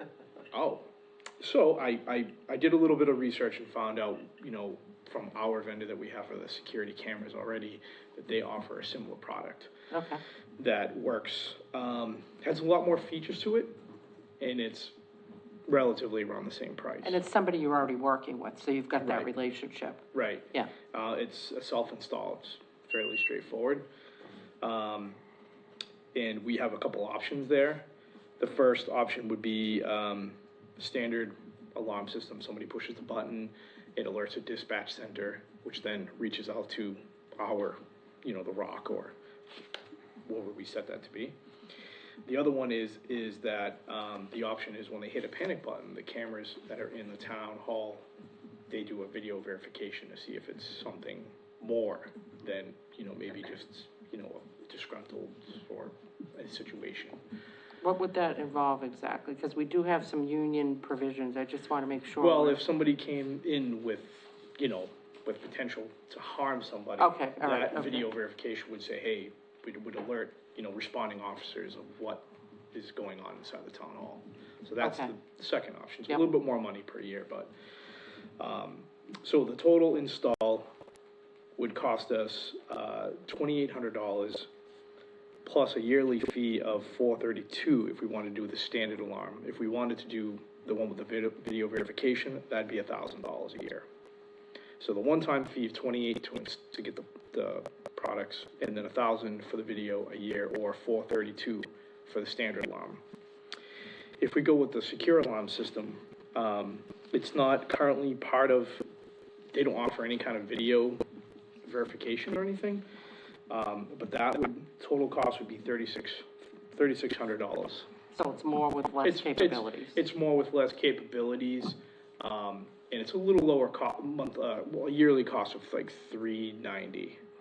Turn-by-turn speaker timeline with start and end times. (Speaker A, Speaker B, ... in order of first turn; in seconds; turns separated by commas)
Speaker A: 0.5-0.8, Speaker A: 1.4-9.7, Speaker B: 9.9-10.2, Speaker A: 10.6-13.8, Speaker A: 14.4-14.9, Speaker A: 15.7-17.2, Speaker B: 17.0-20.7, Speaker A: 19.0-19.3, Speaker A: 20.1-23.9, Speaker A: 24.6-25.2, Speaker A: 26.1-27.9, Speaker A: 28.4-39.1, Speaker A: 40.2-41.4, Speaker A: 42.2-48.0, Speaker A: 48.7-57.2, Speaker B: 57.8-62.6, Speaker A: 62.2-77.5, Speaker B: 67.0-68.1, Speaker B: 74.8-75.1, Speaker A: 78.4-80.7, Speaker A: 81.6-84.5, Speaker A: 85.5-93.9, Speaker A: 94.8-103.0, Speaker A: 104.2-108.8, Speaker A: 109.5-111.0, Speaker A: 111.6-112.8, Speaker A: 113.5-117.9, Speaker B: 118.1-120.0, Speaker A: 119.0-127.2